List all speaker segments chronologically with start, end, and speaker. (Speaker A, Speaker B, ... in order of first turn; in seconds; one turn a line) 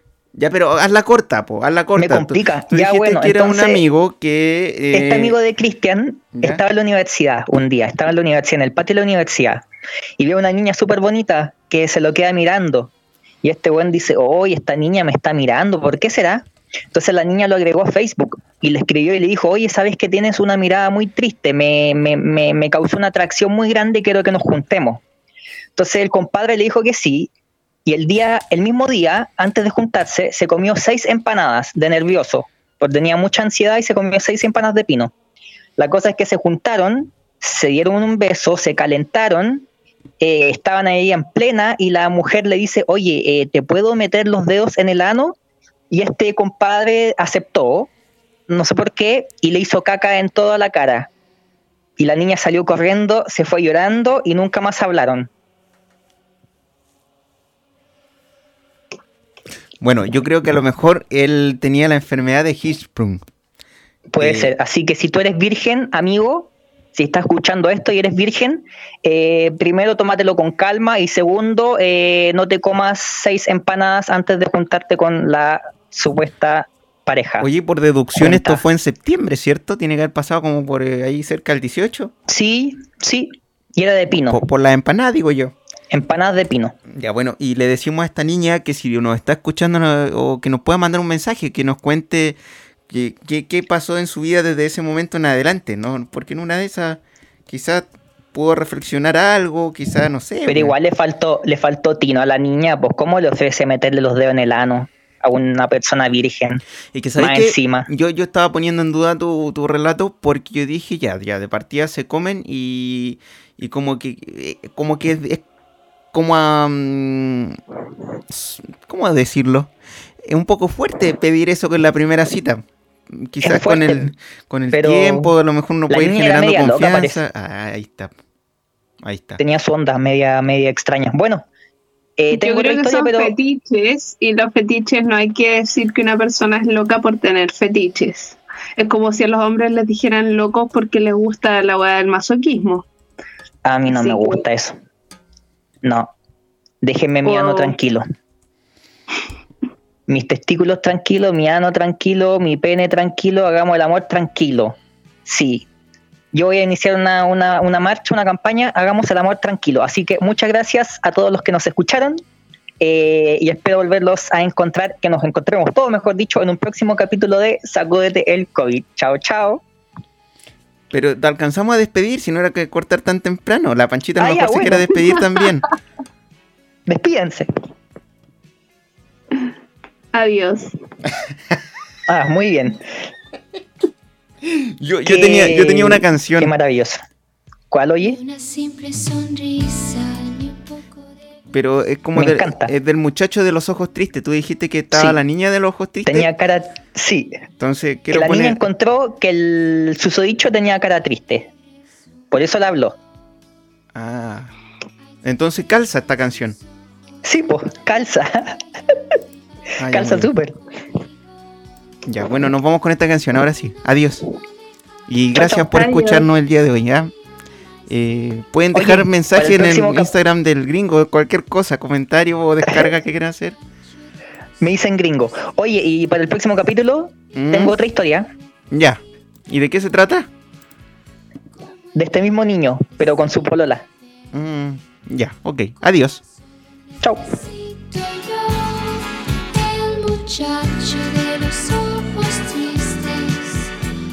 Speaker A: 0.3-5.3
Speaker B: 2.0-3.8
Speaker B: 4.9-9.6
Speaker A: 6.3-6.6
Speaker B: 10.2-12.9
Speaker B: 13.4-25.0
Speaker B: 25.8-27.3
Speaker B: 27.9-35.1
Speaker B: 35.8-39.7
Speaker B: 40.2-45.4
Speaker B: 45.9-47.9
Speaker B: 48.5-51.1
Speaker B: 52.0-55.3
Speaker A: 59.8-63.2
Speaker B: 64.1-77.5
Speaker A: 64.2-64.5
Speaker A: 77.4-82.1
Speaker B: 78.2-78.6
Speaker B: 82.3-84.4
Speaker A: 84.3-85.5
Speaker B: 85.9-86.7
Speaker A: 86.9-92.4
Speaker A: 92.9-100.7
Speaker B: 100.5-106.6
Speaker A: 106.9-115.4
Speaker B: 107.2-107.9
Speaker A: 116.1-117.6
Speaker A: 118.3-119.7
Speaker A: 120.2-128.1
Speaker B: 123.4-124.1
Speaker B: 124.7-125.3
Speaker B: 125.9-127.2
Speaker A: 129.0-129.4
Speaker B: 129.4-131.4
Speaker B: 132.2-133.3
Speaker C: 132.3-142.8
Speaker B: 143.6-144.8
Speaker C: 143.9-144.4
Speaker B: 145.8-146.1
Speaker B: 146.8-148.0
Speaker C: 147.2-147.8
Speaker B: 150.1-155.7
Speaker B: 156.3-162.2
Speaker B: 162.8-169.6
Speaker A: 170.9-175.7
Speaker B: 174.2-175.0
Speaker B: 176.9-177.5
Speaker C: 180.1-180.7
Speaker B: 182.1-182.9
Speaker A: 184.4-186.5
Speaker B: 185.1-187.0
Speaker B: 187.7-188.2
Speaker D: 188.0-191.1
Speaker A: 191.5-196.3
Speaker B: 192.2-192.7
Speaker B: 194.9-195.2
Speaker B: 196.0-197.4
Speaker A: 197.6-198.6
Speaker B: 198.1-201.5
Speaker B: 202.3-203.0
Speaker A: 203.9-204.5
Speaker A: 205.2-206.6
Speaker B: 207.2-208.6
Speaker A: 209.8-210.3
Speaker B: 209.8-210.6
Speaker A: 212.1-214.2
Speaker A: 215.1-217.1
Speaker C: 215.3-216.3
Speaker A: 217.9-223.6
Speaker B: 218.7-220.1
Speaker B: 224.6-228.3
Speaker A: 227.3-227.8
Speaker A: 228.7-230.3
Speaker B: 231.9-233.8
Speaker A: 234.3-236.2
Speaker B: 237.0-237.3
Speaker D: 237.3-243.8